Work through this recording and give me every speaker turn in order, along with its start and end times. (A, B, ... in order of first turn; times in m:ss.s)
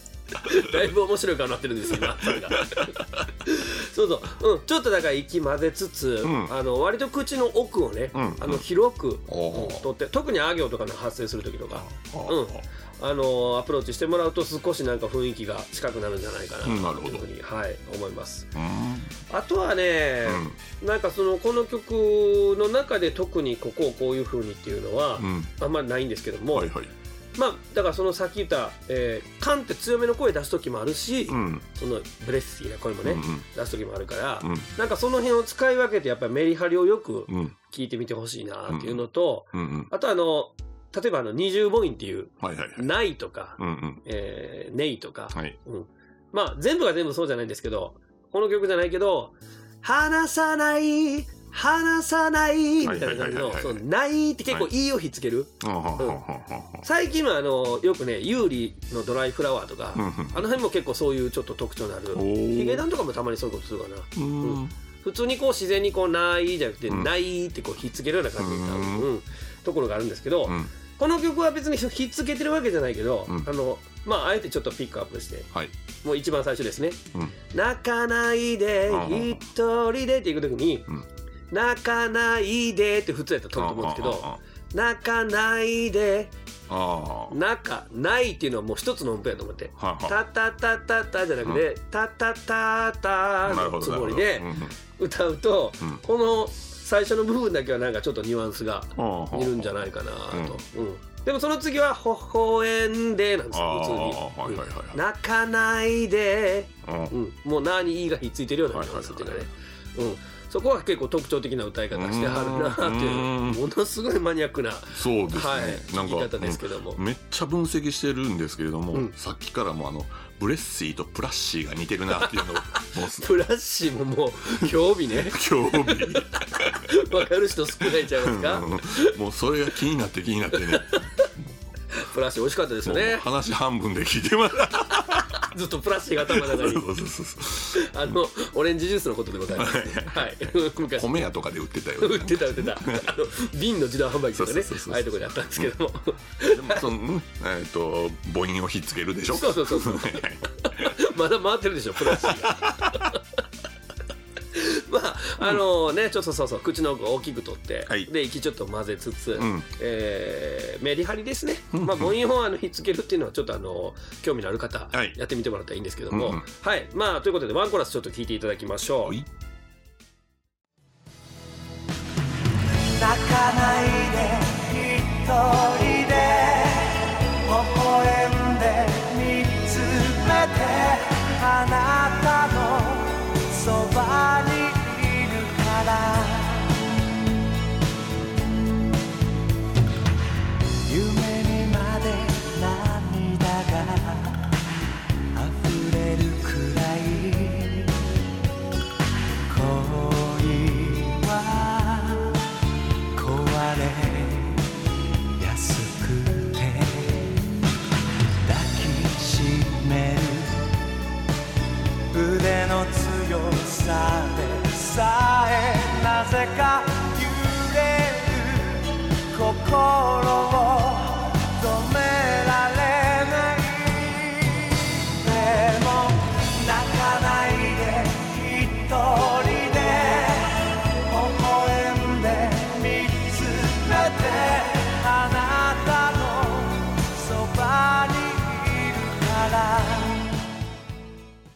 0:00.3-0:18.5 A
0:01.9-0:03.2 B
0:06.2-0:06.5 B
0:08.1-0:08.6 B
0:09.3-0:09.8 B
0:11.7-0:12.6 B
0:16.6-0:17.3 B
0:18.6-0:19.2 B
0:19.3-0:26.7 A
0:20.2-0:20.6 B
0:25.2-0:25.5 B
0:26.5-0:26.9 B
0:27.4-0:56.2 A
0:31.3-0:31.6 B
0:33.0-0:33.5 B
0:34.4-0:34.7 B
0:37.3-0:37.6 B
0:38.7-0:39.9 B
0:42.4-0:42.9 B
0:43.6-0:44.0 B
0:52.8-0:53.8 B
0:55.6-0:56.9 B
0:56.8-1:15.5 A
1:00.0-1:00.4 B
1:02.1-1:02.8 B
1:04.2-1:04.8 B
1:08.4-1:09.1 B
1:10.5-1:10.7 B
1:16.0-1:20.9 A
1:18.9-1:19.4 B
1:21.5-1:26.3 A
1:23.6-1:24.4 B
1:26.7-1:27.4 B
1:27.3-1:57.0 A
1:29.8-1:30.2 B
1:33.4-1:34.8 B
1:39.0-1:39.8 B
1:40.3-1:40.6 B
1:43.5-1:45.0 B
1:46.8-1:47.1 B
1:48.7-1:49.5 B
1:51.9-1:53.6 B
1:55.0-2:03.3 B
2:02.2-2:09.1 A
2:04.6-2:07.0 B
2:07.8-2:11.6 B
2:10.5-2:11.3 A
2:11.9-2:13.2 A
2:12.8-2:15.4 B
2:15.3-2:16.9 A
2:16.3-2:18.0 B
2:17.7-2:21.3 A
2:19.5-2:23.3 B
2:22.0-2:26.9 A
2:24.3-2:25.7 B
2:26.4-2:31.0 B
2:29.3-2:33.2 A
2:32.0-2:33.1 B
2:34.5-2:49.2 A
2:39.4-2:39.7 B
2:41.7-2:42.2 B
2:46.1-2:46.4 B
2:52.9-3:07.0 C
3:10.8-3:14.5 C
3:15.4-3:18.0 C
3:19.4-3:22.4 C
3:23.1-3:24.7 C
3:25.4-3:27.5 C
3:28.4-3:30.8 C
3:32.1-4:00.4 C